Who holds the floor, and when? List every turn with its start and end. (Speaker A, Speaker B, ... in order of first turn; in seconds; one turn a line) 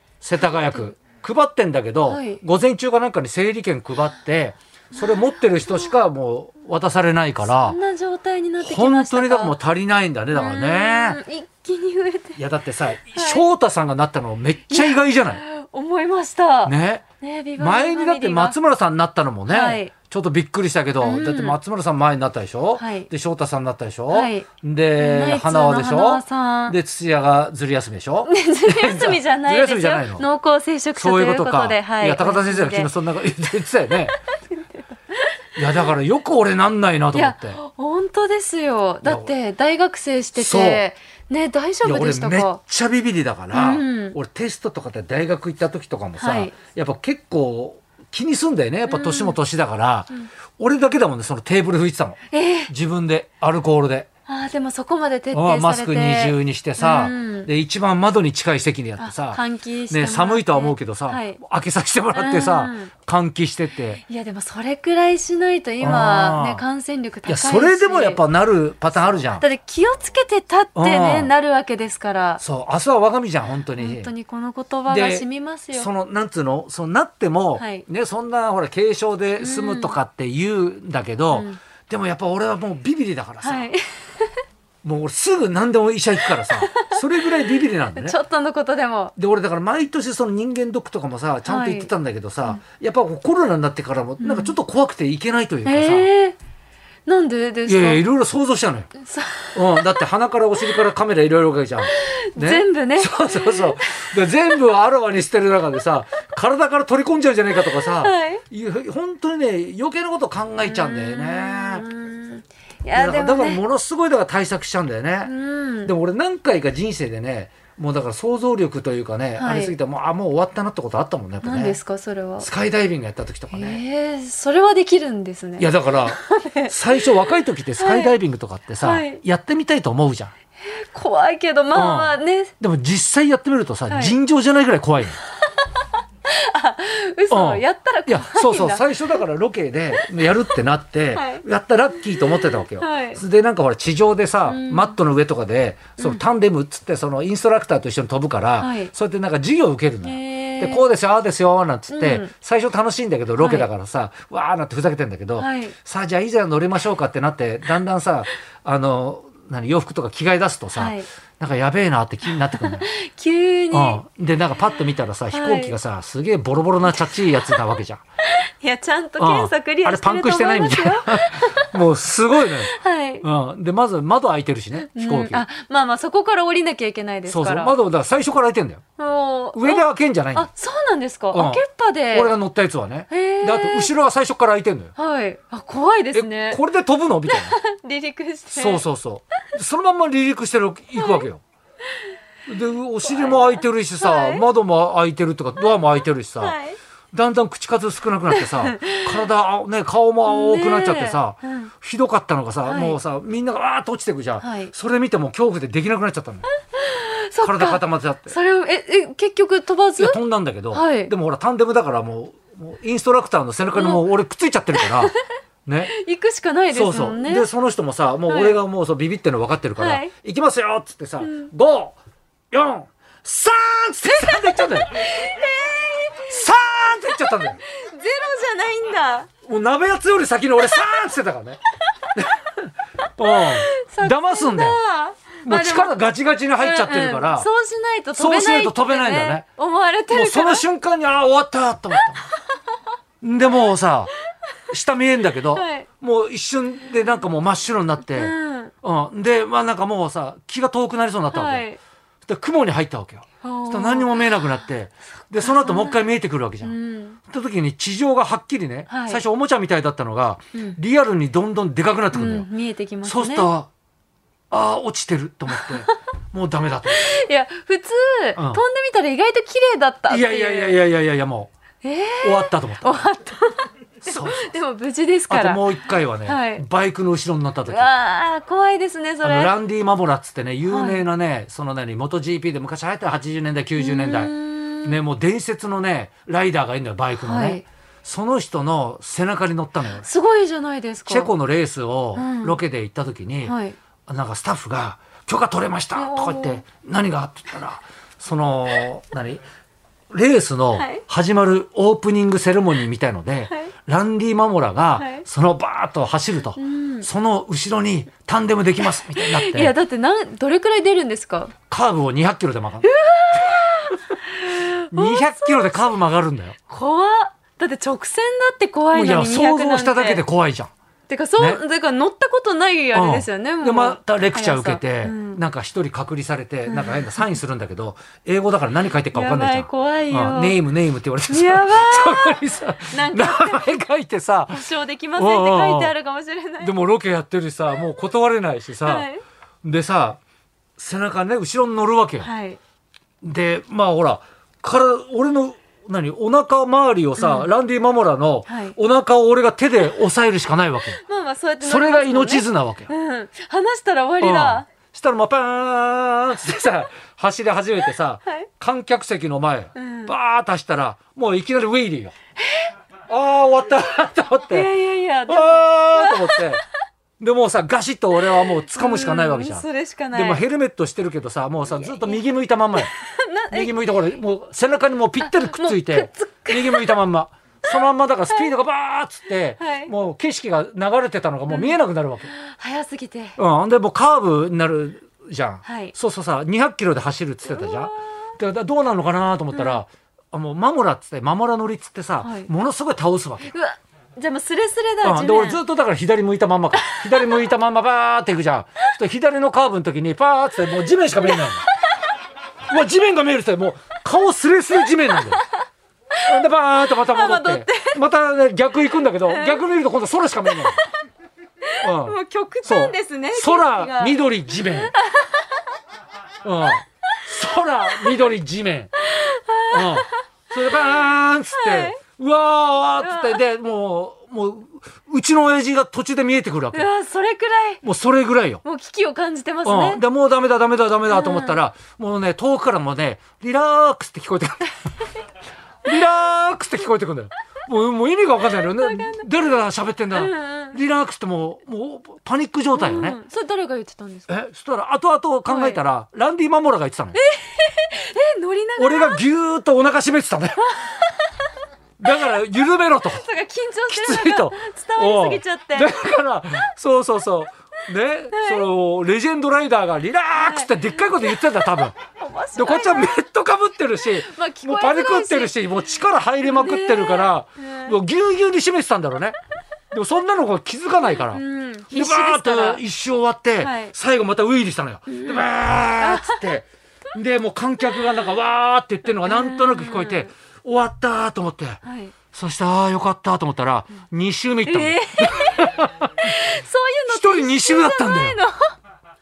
Speaker A: 0.2-7.8
Speaker B: 2.1-2.4
Speaker B: 7.5-9.6
Speaker A: 8.6-11.2
Speaker B: 10.3-12.4
Speaker A: 12.4-15.4
Speaker B: 13.1-13.4
Speaker B: 14.7-18.6
Speaker A: 16.7-17.0
Speaker A: 17.6-30.3
Speaker B: 19.5-19.9
Speaker B: 21.0-21.6
Speaker B: 22.8-23.1
Speaker B: 24.1-26.8
Speaker B: 28.3-32.9
Speaker A: 31.0-34.1
Speaker A: 35.6-37.6
Speaker B: 37.1-42.6
Speaker A: 39.0-39.3
Speaker A: 40.4-40.8
Speaker A: 41.8-54.1
Speaker B: 43.5-44.2
Speaker B: 46.2-46.5
Speaker B: 48.9-49.4
Speaker B: 52.3-52.7
Speaker B: 54.3-57.5
Speaker A: 55.3-64.0
Speaker B: 59.0-61.4
Speaker B: 62.1-62.9
Speaker B: 64.0-68.2
Speaker A: 65.8-66.6
Speaker A: 67.3-69.5
Speaker B: 69.1-72.4
Speaker A: 70.8-71.3
Speaker A: 72.4-74.1
Speaker B: 73.8-75.9
Speaker A: 74.9-83.7
Speaker B: 77.6-77.8
Speaker B: 79.4-80.0
Speaker B: 81.3-81.6
Speaker B: 83.4-84.4
Speaker A: 84.8-88.2
Speaker B: 86.4-87.0
Speaker B: 88.0-89.2
Speaker A: 89.2-96.1
Speaker B: 91.5-91.9
Speaker B: 94.2-94.5
Speaker B: 95.7-96.4
Speaker B: 97.1-98.0
Speaker A: 97.7-98.9
Speaker B: 99.0-100.0
Speaker A: 99.5-111.9
Speaker B: 101.9-104.1
Speaker B: 107.7-108.4
Speaker B: 110.6-113.6
Speaker A: 112.9-115.3
Speaker B: 115.2-115.9
Speaker A: 115.8-121.8
Speaker B: 119.4-119.8
Speaker B: 121.4-122.5
Speaker A: 122.4-123.8
Speaker B: 123.5-128.2
Speaker A: 125.6-126.2
Speaker A: 126.7-130.3
Speaker B: 128.8-129.2
Speaker B: 130.6-132.5
Speaker A: 131.7-135.2
Speaker B: 133.9-134.2
Speaker B: 136.3-139.2
Speaker A: 137.3-162.9
Speaker B: 141.1-141.4
Speaker B: 142.2-143.2
Speaker B: 144.5-145.0
Speaker B: 148.6-148.9
Speaker B: 150.0-150.9
Speaker B: 151.9-152.3
Speaker B: 153.4-153.7
Speaker B: 155.4-155.8
Speaker B: 160.8-161.1
Speaker B: 162.6-164.0
Speaker A: 163.7-168.0
Speaker B: 165.3-165.8
Speaker B: 168.3-171.8
Speaker A: 169.2-175.4
Speaker B: 172.5-173.3
Speaker B: 174.8-177.8
Speaker A: 177.3-178.8
Speaker B: 179.0-182.3
Speaker A: 179.6-180.5
Speaker A: 181.3-181.6
Speaker A: 182.1-184.9
Speaker B: 183.1-183.9
Speaker B: 185.0-186.6
Speaker A: 186.1-187.6
Speaker B: 187.3-188.8
Speaker A: 188.5-191.4
Speaker B: 191.0-191.2
Speaker A: 192.5-196.6
Speaker B: 193.0-194.4
Speaker B: 196.4-196.8
Speaker A: 197.1-206.5
Speaker B: 198.3-199.3
Speaker B: 200.2-201.7
Speaker B: 202.7-203.0
Speaker B: 204.4-204.7
Speaker B: 206.7-210.2
Speaker A: 207.4-208.3
Speaker A: 210.0-215.1
Speaker B: 210.7-211.1
Speaker B: 213.8-214.1
Speaker B: 214.8-215.2
Speaker A: 215.7-215.9
Speaker B: 215.9-217.5
Speaker A: 216.7-222.0
Speaker B: 218.3-218.6
Speaker B: 219.8-220.1
Speaker B: 221.2-221.5
Speaker A: 222.5-225.0
Speaker B: 224.9-226.3
Speaker A: 226.3-227.6
Speaker B: 227.6-229.3
Speaker A: 229.4-231.6
Speaker A: 232.2-234.8
Speaker B: 233.2-236.0
Speaker A: 235.4-237.5
Speaker B: 236.6-240.6
Speaker A: 238.2-239.4
Speaker A: 240.1-242.3
Speaker A: 243.2-244.1
Speaker A: 244.7-251.7
Speaker B: 245.5-245.9
Speaker B: 248.1-248.7
Speaker B: 251.3-251.8
Speaker A: 252.3-256.8
Speaker B: 253.4-254.2
Speaker B: 255.4-256.0
Speaker B: 256.6-257.2
Speaker A: 257.3-262.5
Speaker B: 258.9-259.2
Speaker B: 262.1-263.5
Speaker A: 263.1-263.7
Speaker A: 264.5-267.0
Speaker B: 265.5-265.9
Speaker B: 266.9-270.8
Speaker A: 270.1-271.5
Speaker B: 271.8-276.6
Speaker A: 272.2-273.1
Speaker A: 274.1-274.6
Speaker A: 275.3-277.9
Speaker B: 277.7-279.5
Speaker A: 279.2-284.3
Speaker B: 280.7-281.1
Speaker B: 283.8-285.0
Speaker A: 284.8-290.1
Speaker B: 287.2-287.6
Speaker B: 290.0-291.3
Speaker A: 291.1-293.6
Speaker B: 292.1-292.6
Speaker B: 293.4-293.8
Speaker A: 294.1-299.4
Speaker B: 295.9-296.6
Speaker A: 300.1-309.7
Speaker B: 300.7-301.0
Speaker B: 305.0-305.3
Speaker B: 306.6-307.1
Speaker B: 309.1-311.5
Speaker A: 311.7-313.7
Speaker B: 312.8-315.8
Speaker A: 314.9-316.6
Speaker B: 316.7-320.2
Speaker A: 318.9-320.7
Speaker B: 321.1-325.4
Speaker A: 322.9-334.6
Speaker B: 326.7-327.2
Speaker B: 329.1-330.6
Speaker B: 331.3-333.8
Speaker B: 334.5-336.8
Speaker A: 335.2-335.9
Speaker A: 336.6-339.1
Speaker B: 338.8-339.2
Speaker A: 339.6-340.2
Speaker A: 340.8-342.3
Speaker B: 342.2-342.6
Speaker A: 343.2-351.0
Speaker B: 347.2-347.5
Speaker B: 348.5-348.8
Speaker B: 350.9-354.7
Speaker A: 351.6-352.9
Speaker A: 354.2-362.1
Speaker B: 359.8-360.1
Speaker B: 362.4-362.7
Speaker A: 363.1-364.7
Speaker B: 364.5-366.6
Speaker A: 365.3-366.6
Speaker A: 367.2-372.9
Speaker B: 368.5-370.4
Speaker B: 371.7-372.2
Speaker B: 372.8-374.0
Speaker A: 373.5-382.3
Speaker B: 375.2-377.0
Speaker B: 379.6-379.9
Speaker B: 381.5-383.4
Speaker A: 383.4-393.5
Speaker B: 385.6-385.9
Speaker B: 387.4-388.0
Speaker B: 389.5-389.8
Speaker B: 392.2-392.5
Speaker B: 393.5-395.6
Speaker A: 395.0-401.6
Speaker B: 396.8-397.4
Speaker B: 401.2-401.7
Speaker A: 402.7-405.4
Speaker B: 406.1-408.0
Speaker A: 406.3-410.8
Speaker B: 409.2-409.7
Speaker B: 411.6-415.7
Speaker A: 411.8-414.9
Speaker A: 416.4-418.9
Speaker B: 419.0-422.0
Speaker A: 419.7-426.9
Speaker B: 423.0-423.4
Speaker B: 426.7-427.8
Speaker A: 427.8-428.6
Speaker B: 428.6-430.0
Speaker A: 429.6-434.8
Speaker B: 431.1-431.6
Speaker A: 435.9-443.2
Speaker B: 438.4-439.3
Speaker B: 440.1-440.8
Speaker B: 442.8-444.3
Speaker A: 444.3-447.2
Speaker B: 445.5-445.8
Speaker B: 447.1-449.2
Speaker A: 448.8-450.7
Speaker B: 450.8-451.4
Speaker A: 452.0-453.3
Speaker B: 453.1-456.0
Speaker A: 453.9-462.0
Speaker B: 458.3-458.7
Speaker B: 460.3-463.1
Speaker A: 462.6-469.4
Speaker B: 464.1-468.0
Speaker A: 469.9-486.1
Speaker B: 471.0-472.8
Speaker B: 473.6-473.9
Speaker B: 475.1-475.4
Speaker B: 476.0-476.5
Speaker B: 479.2-480.3
Speaker B: 481.8-482.1
Speaker B: 484.6-488.8
Speaker A: 487.1-488.4